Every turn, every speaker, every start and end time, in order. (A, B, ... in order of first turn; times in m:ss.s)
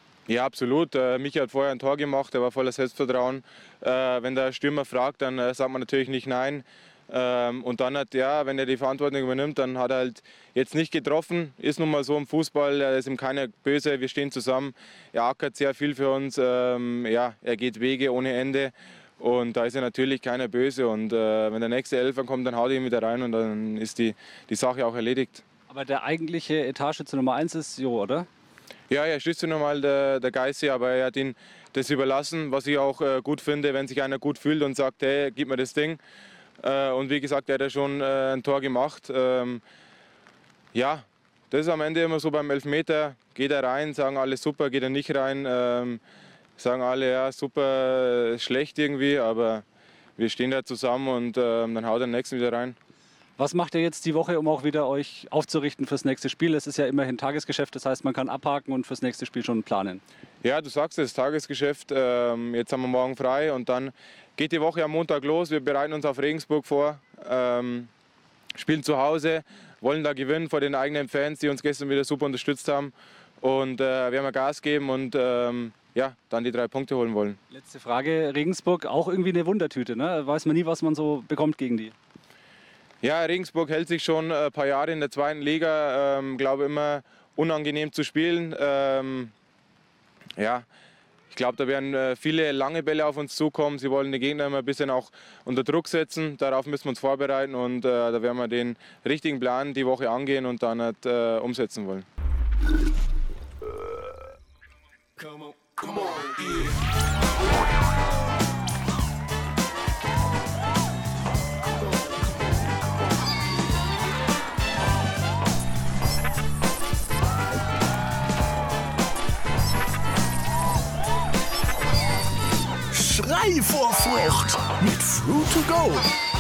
0:00.3-0:25.4 A
0:25.7-0:28.3 B
0:28.9-0:36.0 A
0:36.6-0:39.6 A
0:40.7-0:46.0 A
0:46.6-0:49.6 A
0:50.2-0:52.8 A
0:53.4-1:00.0 B
1:00.4-1:07.9 A
1:08.6-1:17.4 A
1:17.5-1:21.9 B
1:23.0-1:29.3 A
1:30.4-1:30.6 A
1:31.3-1:42.1 A
2:02.9-2:06.1 C